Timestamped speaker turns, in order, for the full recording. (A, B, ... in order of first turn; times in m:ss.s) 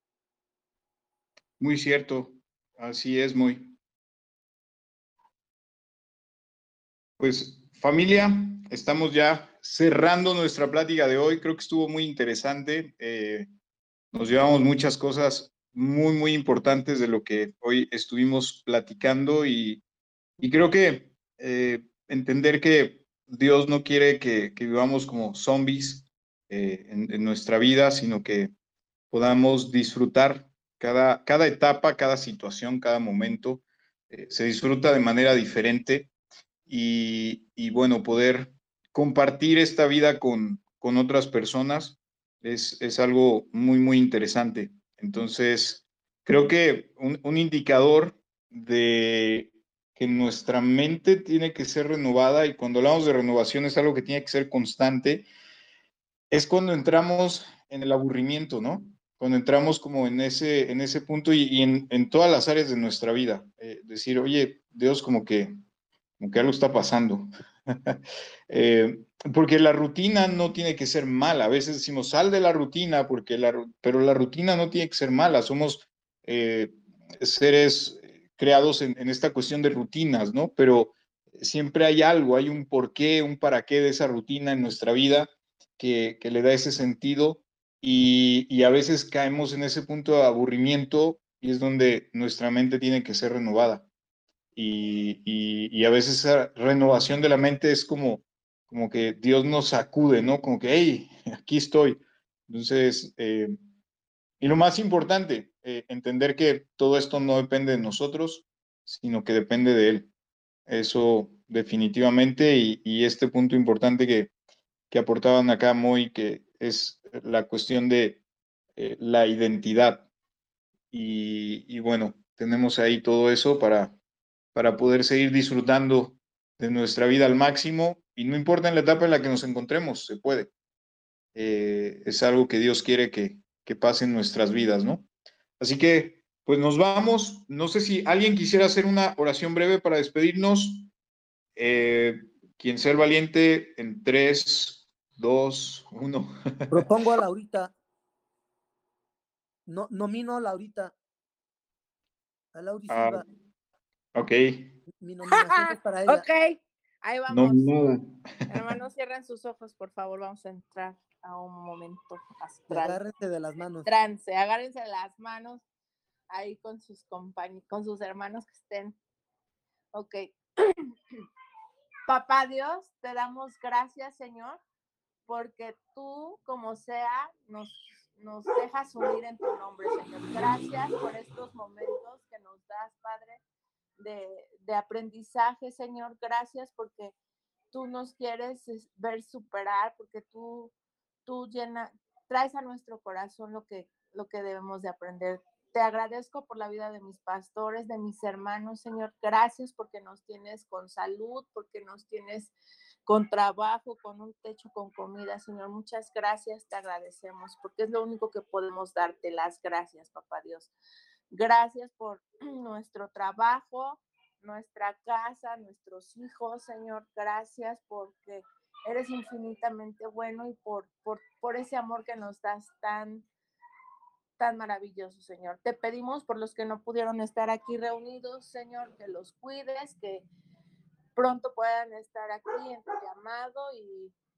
0:01.6-0:03.7 A
0:07.2-0:13.5 A
0:14.1-0:19.8 A
0:20.4-0:28.5 A
0:29.1-0:36.1 A
0:36.7-0:55.3 A
0:56.3-1:05.6 A
1:06.2-1:07.3 A
1:08.5-1:33.8 A
1:34.6-1:43.6 A
1:44.4-1:50.1 A
1:50.7-1:54.3 A
1:54.9-1:58.2 A
1:58.8-2:00.0 A
2:00.9-2:03.9 A
2:04.5-2:10.5 A
2:11.3-2:15.0 A
2:15.6-2:20.9 A
2:21.6-2:26.7 A
2:26.7-2:27.7 B
2:29.7-2:30.9 B
2:32.5-2:33.2 B
2:32.9-2:33.2 A
2:34.1-2:34.8 A
2:35.0-2:36.2 B
2:35.3-2:37.8 C
2:37.3-2:38.1 A
2:38.5-2:43.0 C
2:42.7-2:43.9 B
2:43.8-2:45.6 C
2:46.3-2:49.0 C
2:49.9-2:50.9 C
2:52.1-2:54.6 C
2:55.3-3:03.4 C
3:04.0-3:07.1 C
3:07.7-3:10.7 C
3:11.2-3:22.5 C
3:23.0-3:30.7 C
3:31.3-3:43.3 C
3:44.4-3:50.2 C
3:51.1-3:54.1 C